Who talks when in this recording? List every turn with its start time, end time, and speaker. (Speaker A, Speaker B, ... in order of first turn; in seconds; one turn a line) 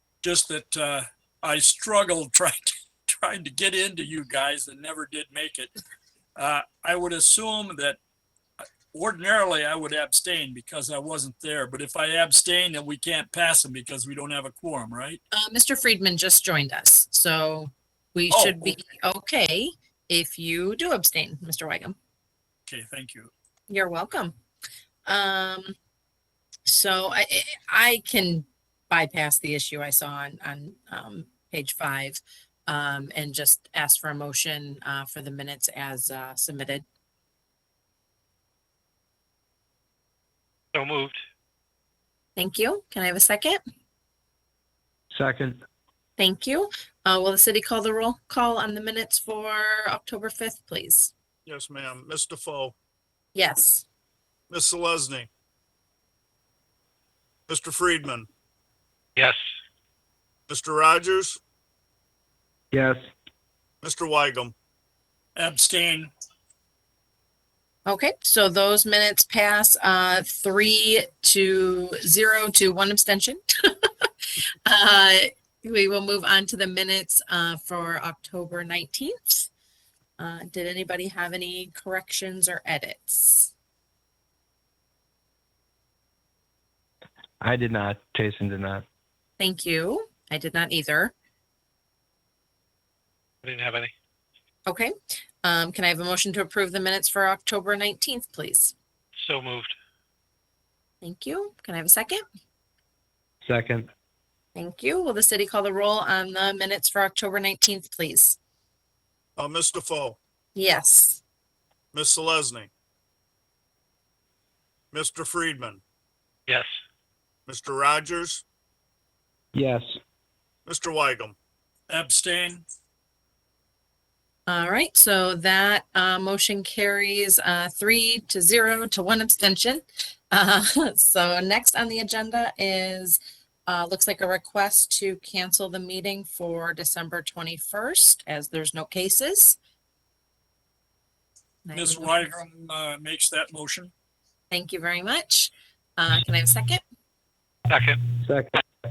Speaker A: 0.2-5.7
Speaker A: 6.3-8.0
Speaker A: 8.9-15.2
Speaker B: 15.3-22.0
Speaker A: 18.3-18.7
Speaker A: 22.7-23.3
Speaker B: 23.7-24.3
Speaker B: 25.1-25.7
Speaker B: 26.6-36.8
Speaker C: 40.7-41.2
Speaker B: 42.4-43.6
Speaker D: 45.1-45.6
Speaker B: 46.2-51.1
Speaker E: 51.4-52.7
Speaker B: 53.3-53.9
Speaker E: 54.5-55.3
Speaker E: 57.5-58.3
Speaker E: 60.5-61.4
Speaker D: 62.7-63.0
Speaker E: 63.8-64.5
Speaker A: 65.3-66.1
Speaker B: 67.8-74.1
Speaker B: 74.7-79.5
Speaker B: 80.2-83.5
Speaker D: 87.4-88.8
Speaker B: 89.4-91.1
Speaker C: 93.4-93.9
Speaker B: 94.7-94.9
Speaker B: 95.4-98.7
Speaker C: 99.2-99.7
Speaker B: 101.0-102.2
Speaker D: 103.4-103.9
Speaker B: 104.5-108.4
Speaker E: 109.4-110.2
Speaker B: 110.5-111.2
Speaker E: 111.9-112.7
Speaker E: 114.9-115.8
Speaker E: 117.5-118.4
Speaker D: 119.5-119.9
Speaker E: 120.7-121.3
Speaker A: 121.9-122.6
Speaker B: 124.5-139.6
Speaker B: 141.6-142.3
Speaker A: 141.7-143.9
Speaker B: 144.5-146.8
Speaker C: 147.7-148.0
Speaker D: 148.2-148.6